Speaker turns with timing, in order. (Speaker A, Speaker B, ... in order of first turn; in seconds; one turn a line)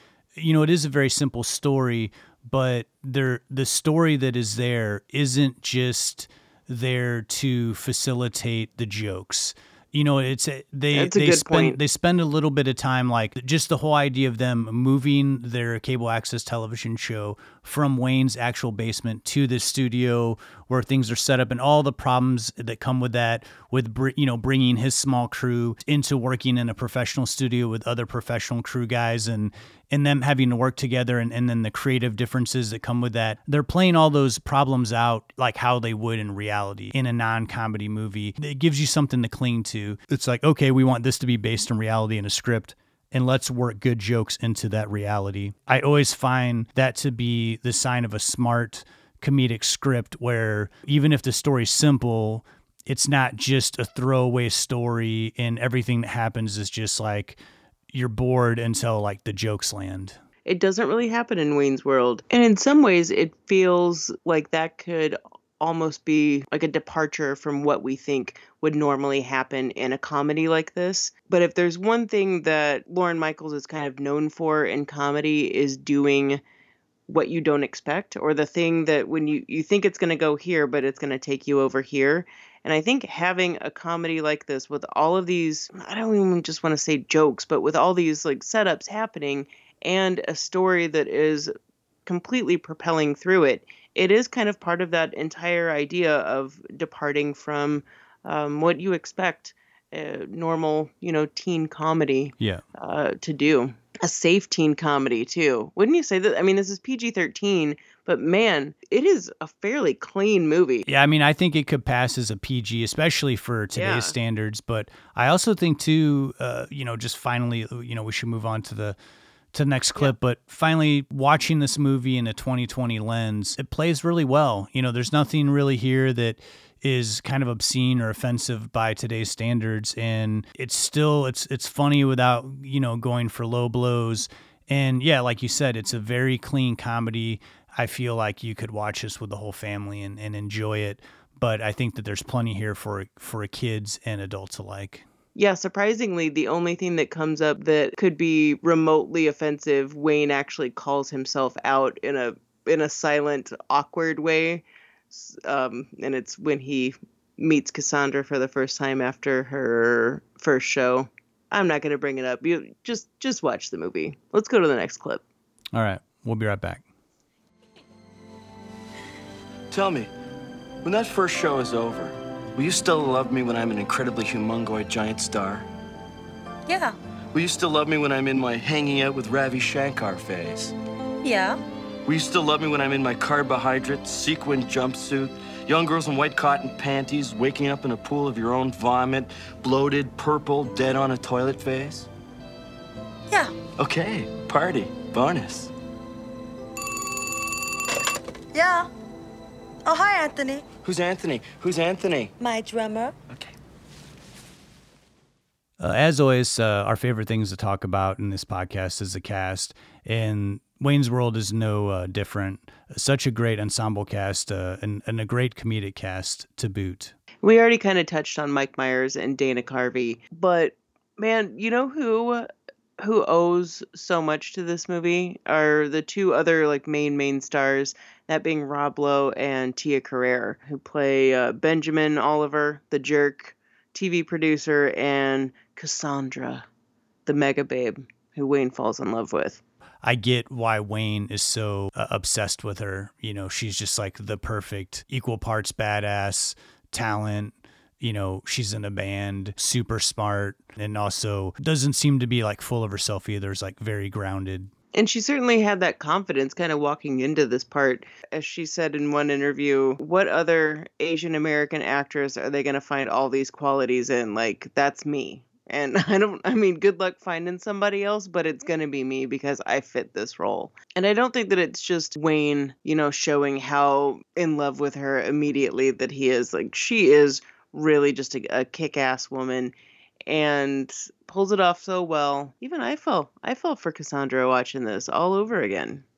Speaker A: 0.3-57.4
Speaker B: 10.9-11.8
Speaker A: 57.9-60.2
Speaker B: 60.5-76.4
Speaker B: 77.1-91.5
Speaker B: 92.1-110.9
Speaker A: 110.9-119.0
Speaker B: 113.7-114.2
Speaker A: 119.5-145.1
Speaker B: 145.3-165.2
Speaker A: 165.7-166.8
Speaker C: 169.7-170.1
Speaker C: 170.8-175.7
Speaker D: 176.7-177.0
Speaker C: 177.3-180.7
Speaker D: 181.2-181.6
Speaker C: 182.1-192.1
Speaker C: 193.8-195.7
Speaker D: 198.5-198.9
Speaker D: 199.9-200.6
Speaker C: 200.8-202.3
Speaker D: 202.4-203.2
Speaker A: 205.8-217.2
Speaker B: 217.4-222.5
Speaker B: 223.0-236.7
Speaker B: 237.3-239.6
Speaker A: 240.0-254.7
Speaker B: 254.9-279.7
Speaker B: 280.3-286.0